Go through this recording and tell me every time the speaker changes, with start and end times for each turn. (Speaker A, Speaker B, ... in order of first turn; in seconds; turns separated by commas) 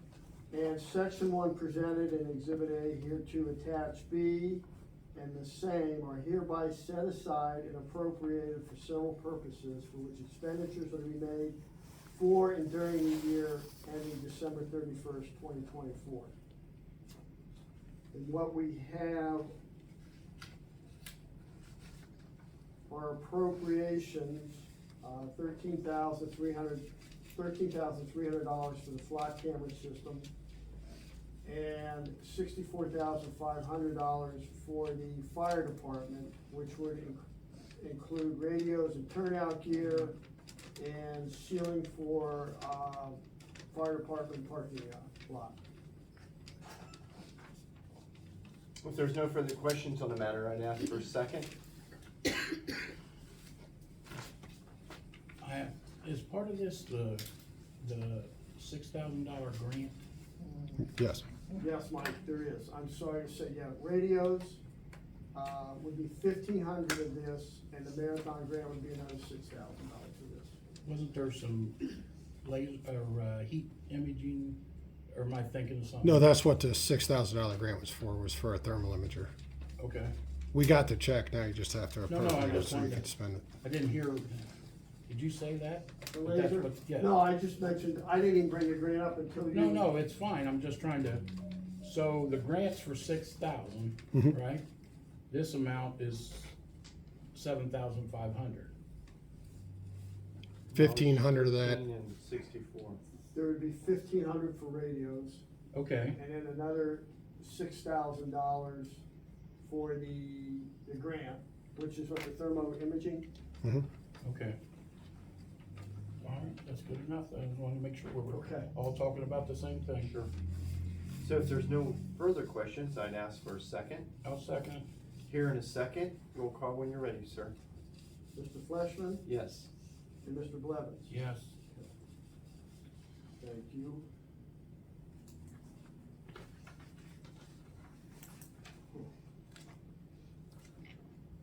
Speaker A: 0.5-11.6, Speaker A: 12.1-16.3, Speaker A: 18.1-19.5, Speaker A: 22.9-30.3, Speaker A: 31.4-37.2, Speaker A: 37.8-40.1, Speaker A: 40.8-43.2, Speaker A: 43.7-45.6, Speaker B: 48.8-51.5, Speaker C: 55.4-57.2, Speaker C: 57.8-60.0, Speaker D: 60.8-61.2, Speaker A: 61.6-64.6, Speaker A: 65.3-70.6, Speaker C: 70.8-74.6, Speaker C: 75.1-76.3, Speaker D: 76.0-79.3, Speaker C: 79.8-80.1, Speaker D: 80.5-83.5, Speaker C: 82.1-83.0, Speaker C: 83.6-84.5, Speaker C: 85.1-87.1, Speaker A: 86.1-89.9, Speaker C: 89.5-91.2, Speaker C: 91.8-94.6, Speaker C: 95.3-96.5, Speaker C: 97.3-98.7, Speaker B: 100.7-103.0, Speaker D: 100.7-101.8, Speaker A: 103.3-105.4, Speaker C: 105.7-106.2, Speaker A: 106.1-109.0, Speaker A: 109.6-113.2, Speaker C: 114.2-114.6, Speaker C: 116.2-120.1, Speaker A: 118.3-118.7, Speaker B: 120.0-120.3, Speaker B: 121.2-124.1, Speaker C: 124.2-124.8, Speaker B: 125.3-127.5, Speaker A: 128.3-129.2, Speaker B: 129.2-129.7, Speaker A: 130.2-131.1, Speaker C: 131.1-131.5, Speaker A: 133.4-134.0